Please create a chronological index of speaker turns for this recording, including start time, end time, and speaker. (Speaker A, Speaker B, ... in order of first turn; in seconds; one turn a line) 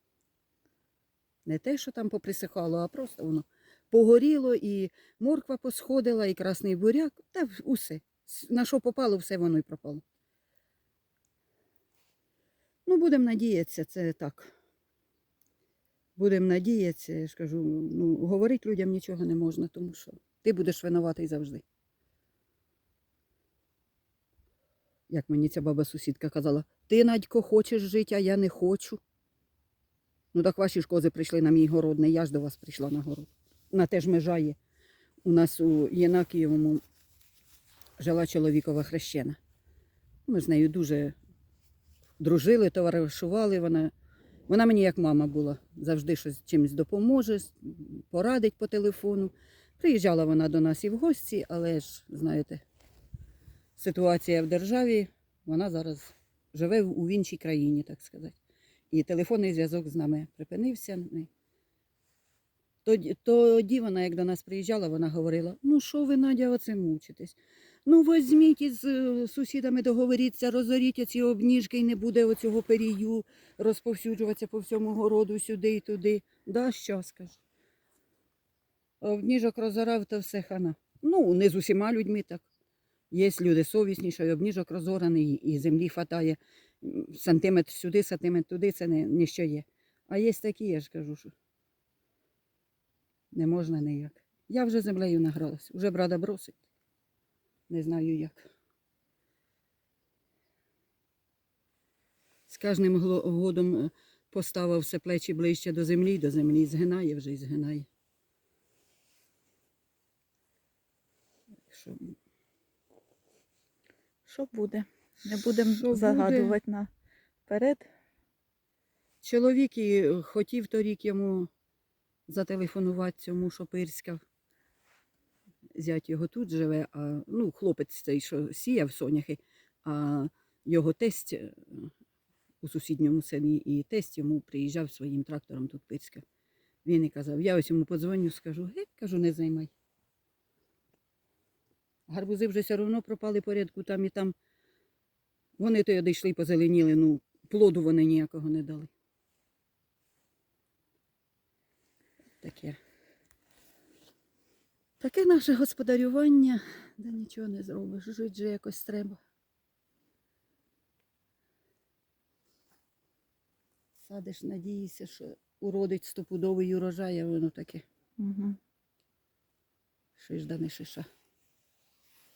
Speaker A: 1.5-10.0
Speaker A: 12.9-14.5
Speaker A: 16.2-21.6
Speaker A: 25.1-29.0
Speaker A: 30.3-34.6
Speaker A: 35.2-36.8
Speaker A: 38.0-39.4
Speaker A: 40.3-41.1
Speaker A: 42.2-43.9
Speaker A: 44.5-52.6
Speaker A: 53.8-58.4
Speaker A: 58.9-61.3
Speaker A: 62.9-77.4
Speaker A: 79.0-82.5
Speaker A: 83.1-91.3
Speaker A: 93.3-96.6
Speaker A: 97.7-98.4
Speaker A: 102.5-107.9
Speaker A: 111.7-112.2
Speaker B: 114.2-116.9
Speaker A: 115.2-116.6
Speaker B: 117.5-117.9
Speaker A: 119.2-121.5
Speaker A: 122.3-124.2
Speaker A: 125.8-131.9
Speaker A: 132.6-136.2
Speaker A: 136.8-139.7
Speaker A: 142.1-144.3
Speaker A: 145.6-148.9
Speaker A: 152.4-152.8
Speaker A: 155.0-159.2
Speaker A: 164.0-167.8
Speaker B: 168.2-168.6
Speaker A: 170.2-171.1